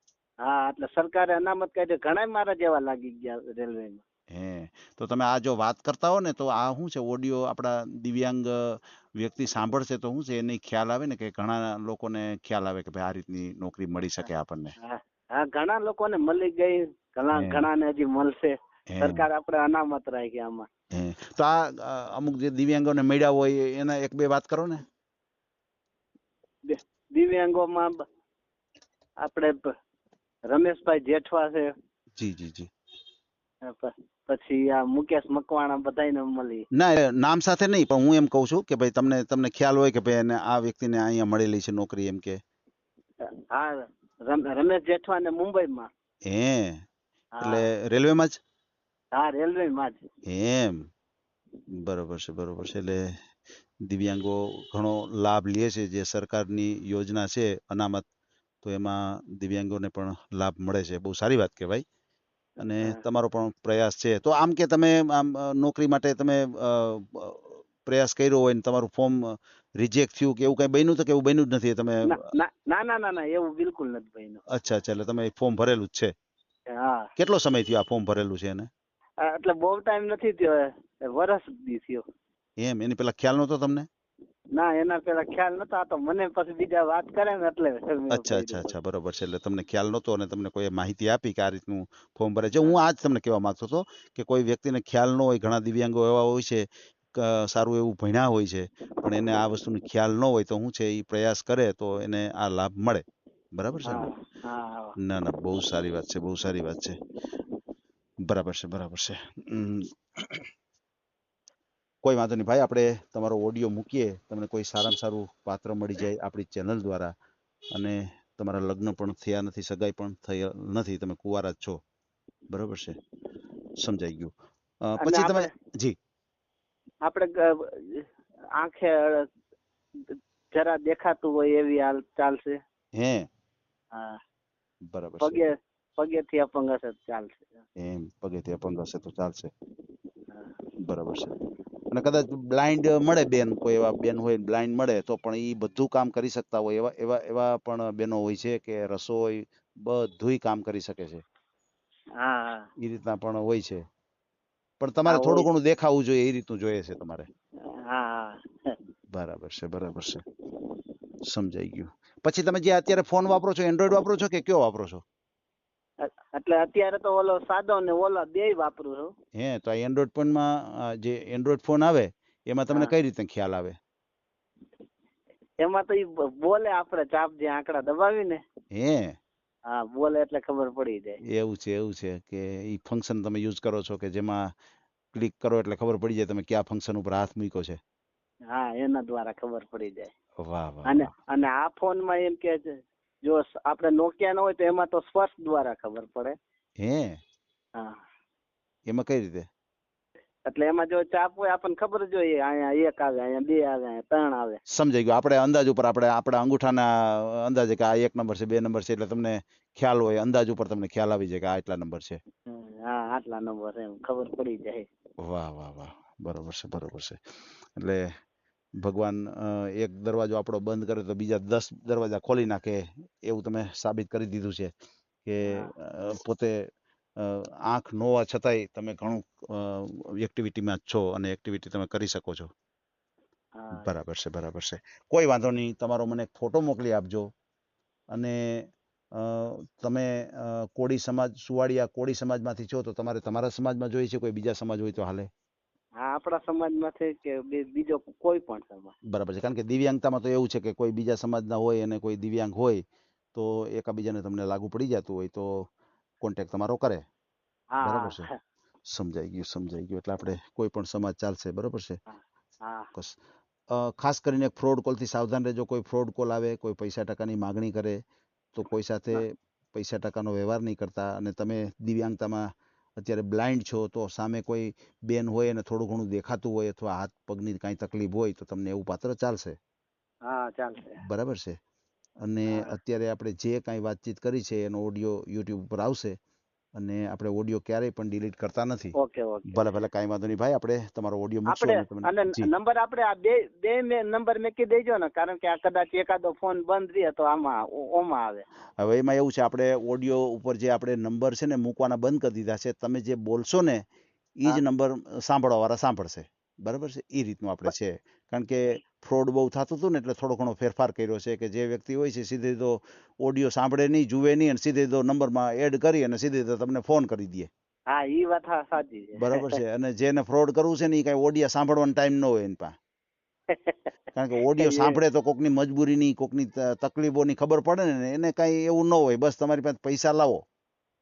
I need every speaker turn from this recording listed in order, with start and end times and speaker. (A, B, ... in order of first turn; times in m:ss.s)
0:00.4-0:04.0 A
0:04.3-0:14.8 B
0:14.8-0:20.7 A
0:17.3-0:17.7 B
0:18.9-0:19.2 B
0:20.9-0:24.8 B
0:26.7-0:28.0 A
0:29.2-0:29.7 A
0:30.5-0:31.7 A
0:32.2-0:32.7 B
0:33.6-0:36.7 A
0:36.7-0:42.4 B
0:43.3-0:45.9 A
0:46.3-0:46.8 B
0:47.4-0:47.7 A
0:47.4-0:48.4 B
0:49.1-0:50.0 A
0:50.3-0:50.8 B
0:51.8-0:53.0 B
0:53.9-0:58.0 B
0:58.6-1:01.8 B
1:02.6-1:09.2 B
1:09.8-1:12.1 B
1:12.0-1:14.4 A
1:14.5-1:16.1 B
1:16.7-1:17.1 A
1:17.2-1:18.7 B
1:19.2-1:22.0 A
1:22.6-1:23.9 B
1:24.6-1:28.7 A
1:28.1-1:44.1 B
1:43.8-1:45.0 A
1:45.0-1:47.0 B
1:48.3-1:50.5 B
1:52.0-1:57.1 B
1:57.8-2:01.8 B
2:02.5-2:03.0 B
2:03.8-2:04.3 B
2:04.8-2:06.0 B
2:05.0-2:05.5 A
2:07.0-2:09.3 A
2:10.1-2:12.6 A
2:13.0-2:13.3 B
2:13.9-2:14.2 A
2:14.9-2:15.4 B
2:15.2-2:17.6 A
2:17.8-2:19.5 B
2:20.8-2:21.3 B
2:21.9-2:31.2 B
2:32.2-2:32.7 A
2:32.8-2:33.8 B
2:34.8-2:37.3 B
2:35.1-2:35.5 A
2:37.7-2:38.8 A
2:39.1-2:40.2 B
2:41.3-2:45.0 B
2:46.0-2:49.1 A
2:49.4-2:53.8 B
2:55.6-2:58.4 A
2:58.7-2:59.2 B
2:59.7-3:01.2 A
3:01.3-3:04.5 B
3:05.1-3:07.8 B
3:08.5-3:10.1 A
3:10.4-3:11.1 B
3:10.9-3:16.4 A
3:16.8-3:17.2 B
3:18.9-3:19.5 B
3:20.5-3:24.6 A
3:24.7-3:32.2 B
3:32.5-3:34.9 A
3:35.2-3:37.2 B
3:37.8-3:38.0 B
3:38.8-3:44.7 B
3:45.3-3:46.6 B
3:45.4-3:45.7 A
3:47.2-3:52.5 B
3:53.6-3:53.9 A
3:53.7-3:57.3 B
3:58.1-3:58.4 B
3:59.2-4:05.3 B
4:06.0-4:08.9 A
4:09.1-4:12.8 B
4:13.3-4:15.7 B
4:16.2-4:17.0 B
4:17.8-4:18.4 A
4:17.8-4:18.3 B
4:18.9-4:22.0 B
4:22.1-4:22.9 A
4:23.7-4:28.0 B
4:28.5-4:32.5 B
4:33.0-4:39.6 B
4:40.3-4:41.0 A
4:41.0-4:41.6 B
4:42.2-4:46.2 B
4:46.8-4:49.0 B
4:49.0-4:49.6 A
4:49.5-4:52.5 B
4:51.5-4:58.4 A
4:58.8-5:03.8 B
5:04.4-5:17.5 B
5:17.9-5:19.6 A
5:19.2-5:22.7 B
5:23.5-5:23.8 A
5:24.2-5:30.4 B
5:24.6-5:25.0 A